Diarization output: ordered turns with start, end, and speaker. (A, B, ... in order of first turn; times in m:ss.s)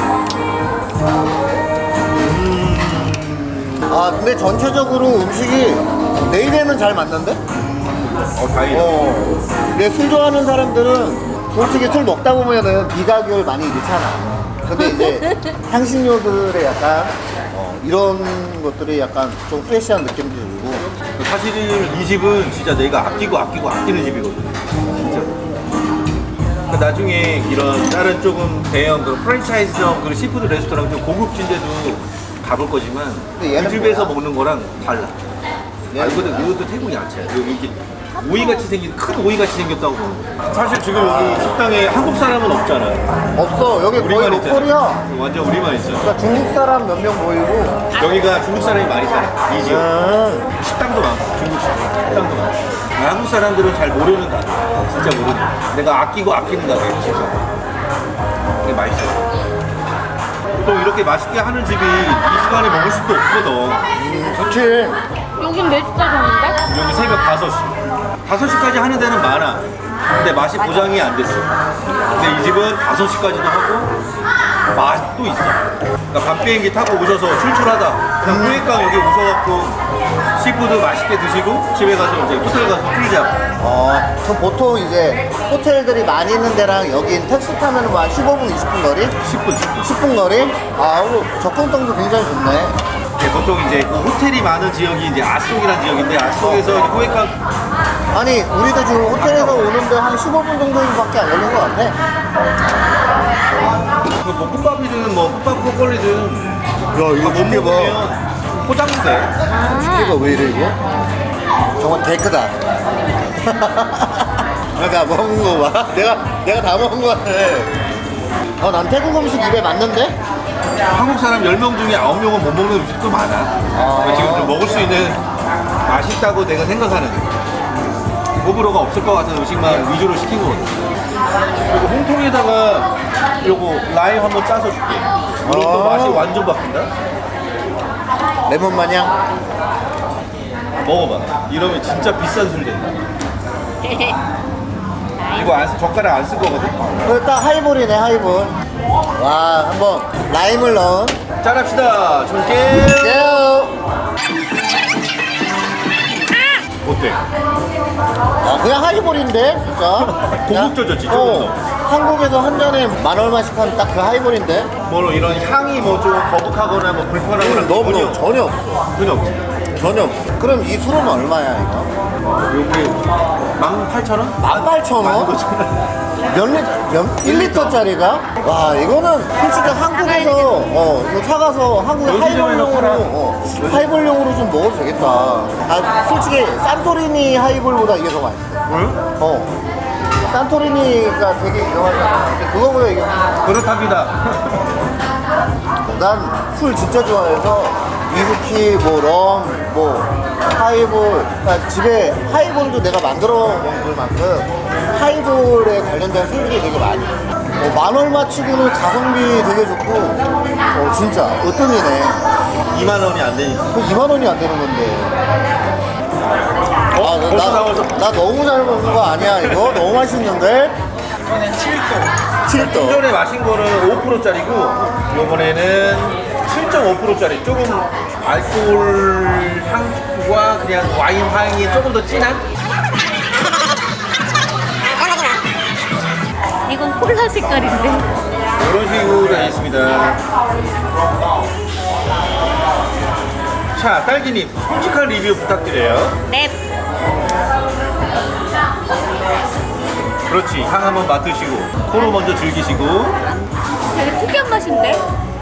0:02.1-0:03.9 A
0:03.9-0:07.4 B
0:07.5-0:09.1 A
0:08.7-0:20.9 B
0:14.8-0:15.5 C
0:21.2-0:25.3 A
0:26.7-0:35.2 A
0:33.4-0:34.1 B
0:35.9-0:36.4 B
0:35.9-0:43.1 A
0:38.2-0:38.6 C
0:40.9-0:41.6 B
0:43.4-0:45.0 B
0:44.0-0:46.1 A
0:46.0-0:47.8 B
0:47.9-0:48.3 C
0:48.0-0:49.9 A
0:49.6-0:50.5 B
0:50.6-0:57.5 A
0:58.6-0:59.3 A
1:00.5-1:03.8 A
1:04.0-1:05.0 B
1:05.4-1:06.6 C
1:06.7-1:11.5 A
1:12.0-1:12.3 B
1:12.1-1:14.0 A
1:14.7-1:19.8 A
1:18.2-1:18.6 B
1:20.4-1:23.4 A
1:23.6-1:29.2 B
1:29.2-1:30.0 A
1:29.8-1:32.8 B
1:33.2-1:37.4 A
1:36.4-1:36.9 B
1:38.1-1:42.0 B
1:39.1-1:39.7 A
1:44.2-1:46.6 A
1:46.9-1:48.0 B
1:47.2-1:49.3 A
1:49.5-1:50.2 C
1:49.6-1:50.8 B
1:51.8-1:52.6 B
1:53.4-1:57.7 B
1:58.6-2:00.2 B
2:00.9-2:05.2 A
2:03.7-2:04.7 B
2:05.8-2:07.3 A
2:08.4-2:10.9 A
2:11.4-2:16.9 A
2:15.4-2:16.3 B
2:18.5-2:19.1 B
2:20.8-2:23.0 A
2:23.8-2:24.2 C
2:25.3-2:27.0 A
2:27.0-2:28.6 B
2:29.2-2:31.2 B
2:31.4-2:33.4 A
2:32.7-2:33.8 B
2:36.8-2:37.2 A
2:38.4-2:44.7 B
2:40.0-2:41.6 A
2:44.8-2:48.2 A
2:47.4-2:48.7 B
2:48.8-2:49.4 A
2:49.8-2:51.9 B
2:52.2-2:55.9 A
2:54.4-2:55.4 B
2:56.3-3:09.5 B
2:57.2-2:57.8 A
2:59.7-3:00.6 C
3:02.0-3:04.0 A
3:08.7-3:09.0 A
3:10.3-3:13.4 B
3:13.4-3:14.7 A
3:15.9-3:30.2 B
3:30.7-3:32.2 B
3:32.7-3:33.7 A
3:33.7-3:35.2 B
3:36.9-3:38.0 A
3:37.0-3:40.8 B
3:41.3-3:52.4 A
3:42.4-3:43.0 B
3:56.7-3:58.1 C
3:58.6-4:00.2 A
4:03.8-4:06.2 A
4:06.3-4:06.6 C
4:10.3-4:13.2 A
4:13.3-4:15.0 C